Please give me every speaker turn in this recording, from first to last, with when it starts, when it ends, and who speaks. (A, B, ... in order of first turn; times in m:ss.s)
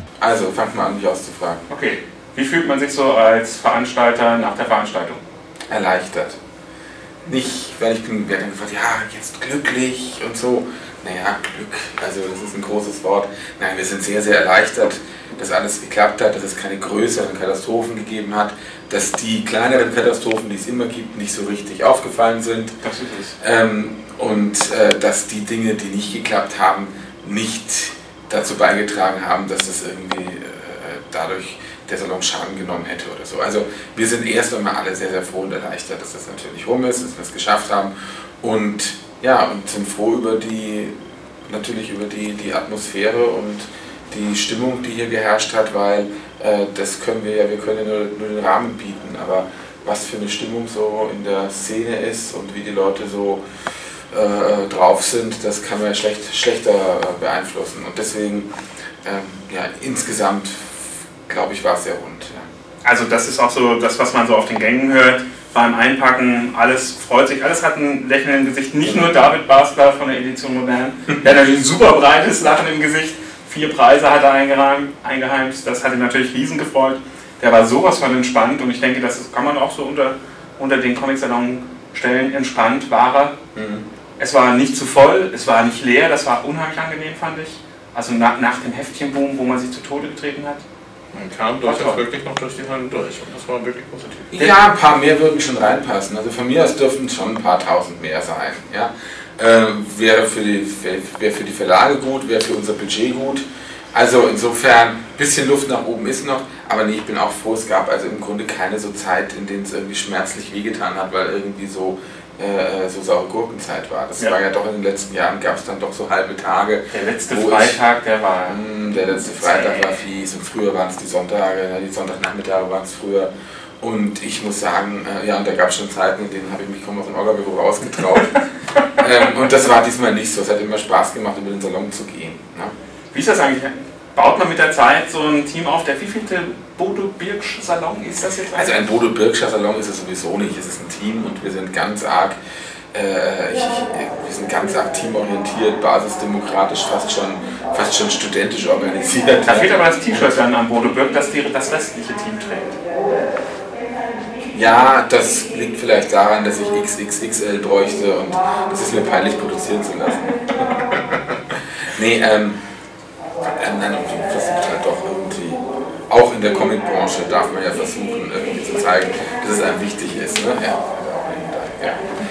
0:00.2-0:01.6 A
0:01.7-0:05.2 B
0:05.7-0:06.4 A
0:07.3-0:22.8 A
0:22.8-0:23.3 B
0:23.4-0:41.0 A
0:41.5-0:53.4 A
0:54.1-0:58.5 A
0:59.0-1:02.5 A
1:02.8-1:23.4 B
1:08.8-1:09.2 A
1:23.6-1:23.8 A
1:24.2-1:30.6 B
1:31.1-1:34.3 C
1:31.6-1:32.0 B
1:34.3-1:57.8 A
1:56.9-1:59.9 B
1:58.4-2:08.4 A
2:09.0-2:12.7 A
2:13.1-2:18.9 B
2:18.5-2:22.4 A
2:22.9-2:30.3 A
2:29.4-2:32.8 B
2:34.5-2:42.6 A
2:43.4-2:52.0 A